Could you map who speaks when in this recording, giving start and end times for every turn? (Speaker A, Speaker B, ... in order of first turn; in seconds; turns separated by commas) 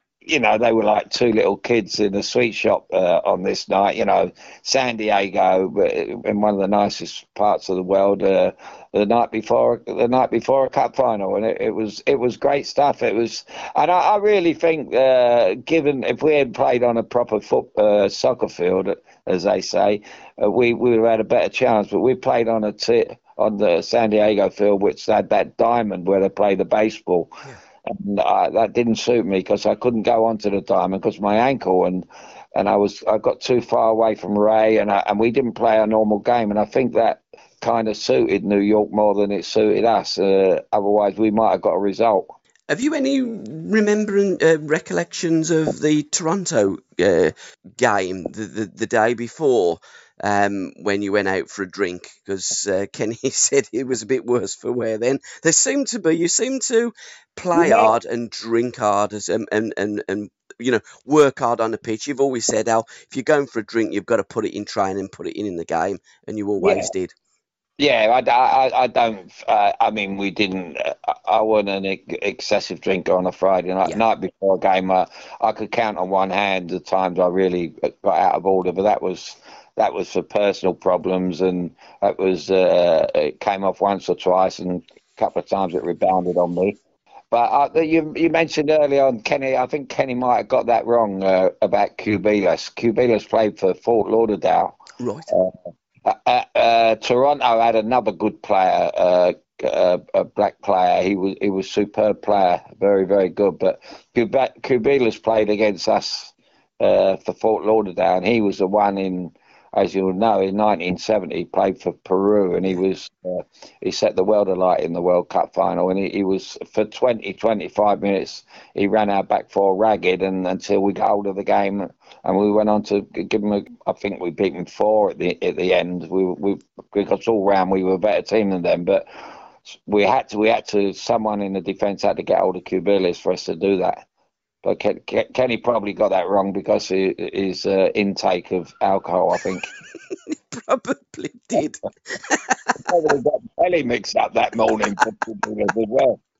Speaker A: 0.2-27.3, Speaker A: 27.9-42.3, Speaker B: 42.7-67.1, Speaker A: 57.5-57.9, Speaker A: 66.6-66.9, Speaker A: 67.8-86.8, Speaker A: 87.3-94.7, Speaker B: 95.0-95.3, Speaker A: 96.0-129.1, Speaker A: 129.8-134.0, Speaker A: 134.6-139.7, Speaker B: 140.3-142.8, Speaker A: 142.8-146.2